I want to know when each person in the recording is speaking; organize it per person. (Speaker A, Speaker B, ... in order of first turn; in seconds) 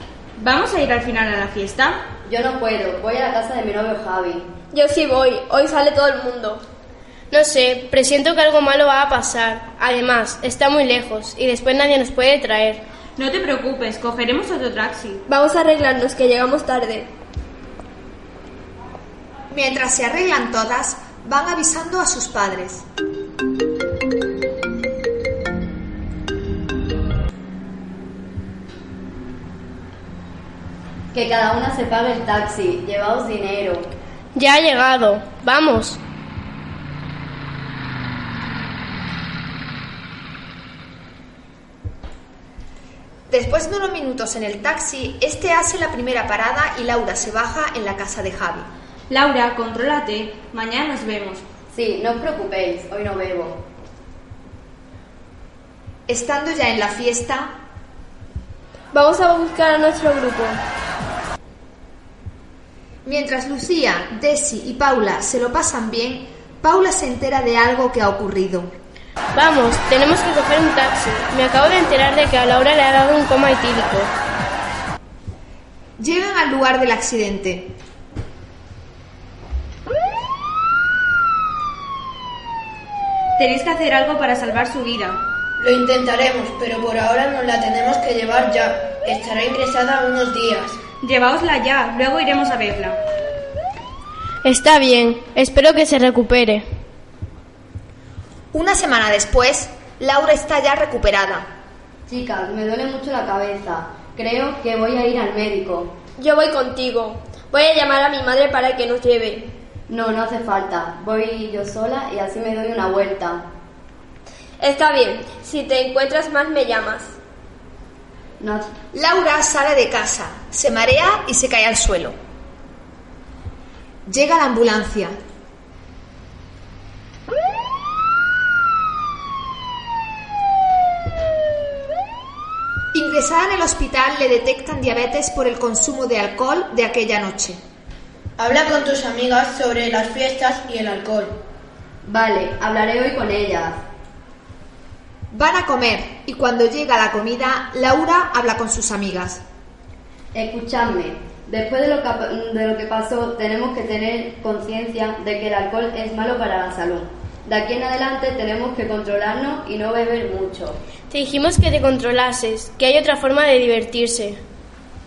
Speaker A: 0.4-2.0, 13.2-15.2, 49.1-51.4, 83.4-85.2, 91.0-93.0
Speaker B: 2.3-4.5, 31.1-33.9, 51.7-53.6, 102.1-105.9, 109.9-113.5, 118.4-118.7, 142.0-143.8, 150.3-160.8
Speaker C: 4.7-6.6, 15.3-17.1, 58.9-60.6, 106.2-109.5, 114.6-117.1
Speaker D: 7.3-12.8, 34.4-36.0, 69.3-74.1, 94.4-96.7, 161.1-164.4
Speaker E: 19.5-22.9, 43.3-48.7, 56.1-57.5, 63.0-68.7, 76.0-77.8, 98.5-101.5, 118.9-122.2, 124.1-125.2, 132.9-137.6, 145.3-149.4
Speaker F: 85.6-90.8, 138.4-141.4